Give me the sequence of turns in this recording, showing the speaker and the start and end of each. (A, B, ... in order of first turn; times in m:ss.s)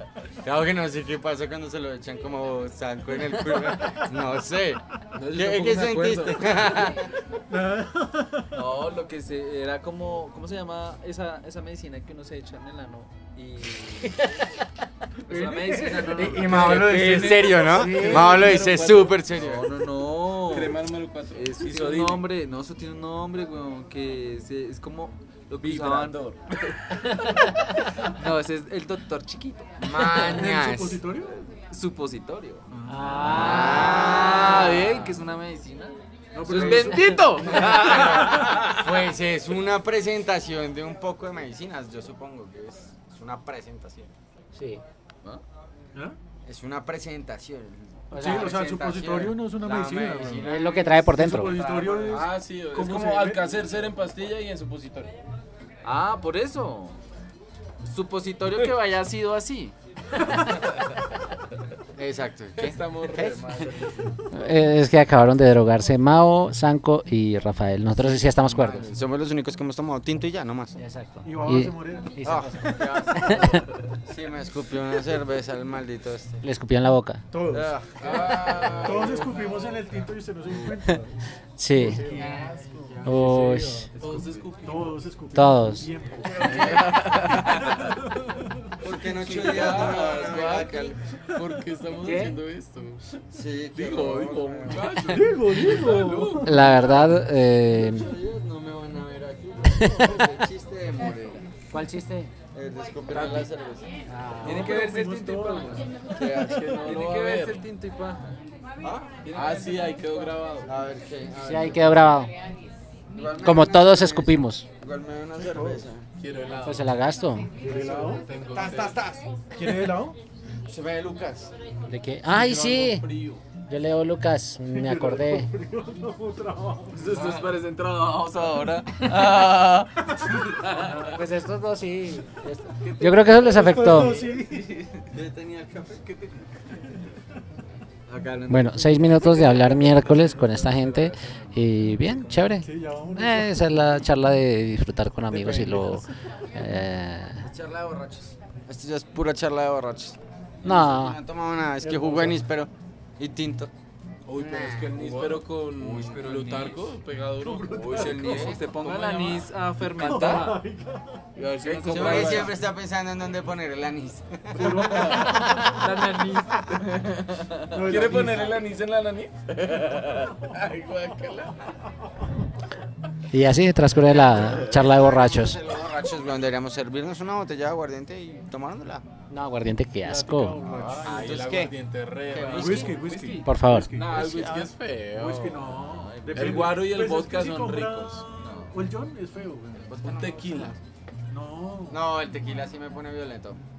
0:00.4-0:07.1 A
0:05.2-0:06.8 B
0:07.5-0:08.5 C
0:08.5-0:14.3 D
0:15.2-0:18.2 D
0:15.3-0:16.0 C
0:16.1-0:19.6 A
0:17.6-0:18.4 E
0:17.8-0:19.5 B
0:19.3-0:20.8 D
0:20.4-0:22.3 B
0:21.3-0:26.2 D
0:25.6-0:26.4 B
0:26.8-0:30.3 D
0:29.8-0:31.1 A
0:30.0-0:31.3 C
0:31.2-0:38.8 D
0:32.9-0:34.9 E
0:33.2-0:35.1 A
0:36.4-0:37.8 C
0:36.4-0:44.1 A
0:44.5-0:44.8 E
0:46.4-0:52.3 A
0:48.1-0:48.6 E
0:48.1-0:53.6 C
0:50.4-0:51.6 E
0:52.0-0:55.1 B
0:55.8-0:57.0 D
0:57.8-0:59.8 D
1:01.9-1:03.4 A
1:02.6-1:04.3 B
1:04.3-1:08.9 E
1:08.0-1:10.8 A
1:10.8-1:13.6 E
1:11.2-1:12.8 C
1:12.2-1:16.4 A
1:16.4-1:17.2 E
1:17.3-1:17.7 C
1:17.5-1:19.8 A
1:18.0-1:19.2 B
1:18.7-1:21.1 C
1:21.6-1:22.0 E
1:21.7-1:22.5 C
1:21.8-1:23.5 A
1:21.9-1:22.4 B
1:23.0-1:23.9 E
1:23.0-1:23.9 C
1:24.0-1:25.1 B
1:24.0-1:24.4 D
1:24.6-1:27.2 C
1:25.3-1:25.9 E
1:26.2-1:27.9 B
1:26.4-1:26.8 A
1:26.7-1:27.8 D
1:27.8-1:28.8 C
1:28.8-1:31.0 A
1:29.1-1:33.1 B
1:32.0-1:32.4 E
1:33.3-1:35.0 A
1:33.7-1:37.1 B
1:35.0-1:36.8 C
1:36.4-1:38.1 E
1:36.8-1:37.1 A
1:37.7-1:41.5 A
1:41.7-1:42.3 E
1:42.5-1:43.9 A
1:43.1-1:43.5 B
1:44.1-1:44.7 E
1:44.4-1:45.9 D
1:44.4-1:44.8 B
1:44.4-1:45.9 C
1:46.1-1:46.9 A
1:46.4-1:47.6 B
1:46.8-1:48.4 D
1:48.8-1:49.2 A
1:49.2-1:49.8 D
1:49.3-1:50.7 B
1:50.6-1:52.1 A
1:51.4-1:52.3 E
1:53.1-1:56.1 A
1:53.4-1:54.7 E
1:55.4-1:55.9 C
1:56.2-1:56.9 B
1:56.6-1:57.5 E
1:57.6-1:58.3 C
1:57.6-1:59.0 B
1:58.4-1:59.9 A
1:59.5-2:00.2 C
2:00.7-2:01.5 A
2:01.9-2:03.1 E
2:02.3-2:03.4 B
2:03.7-2:05.5 E
2:04.7-2:07.1 C
2:06.9-2:11.1 D
2:07.0-2:07.5 B
2:10.8-2:14.3 E
2:12.8-2:14.9 D
2:13.6-2:14.8 C
2:15.1-2:16.1 A
2:18.1-2:20.2 A
2:18.5-2:27.4 E
2:19.2-2:22.5 B
2:22.6-2:24.1 C
2:25.3-2:25.9 C
2:27.4-2:33.7 A
2:30.6-2:31.2 E
2:31.8-2:32.4 C
2:34.3-2:40.5 B
2:34.3-2:35.2 A
2:35.0-2:36.9 D
2:37.4-2:38.5 C
2:37.7-2:40.6 D
2:38.1-2:38.6 A
2:39.8-2:41.3 C
2:41.4-2:42.6 B
2:41.4-2:42.6 D
2:41.9-2:46.0 A
2:44.5-2:45.9 C
2:44.6-2:45.6 B
2:45.6-2:46.8 D
2:46.7-2:51.8 B
2:47.7-2:48.6 C
2:53.3-2:55.6 E
2:54.0-2:59.0 A
2:59.3-3:00.7 E
3:00.0-3:01.3 C
3:00.6-3:01.7 A
3:01.0-3:05.6 B
3:02.2-3:03.2 A
3:02.5-3:09.9 C
3:03.4-3:03.9 E
3:05.6-3:06.8 D
3:06.3-3:08.3 B
3:08.4-3:08.9 D
3:09.8-3:10.8 A
3:10.0-3:10.8 B
3:11.3-3:12.0 C
3:11.9-3:13.6 A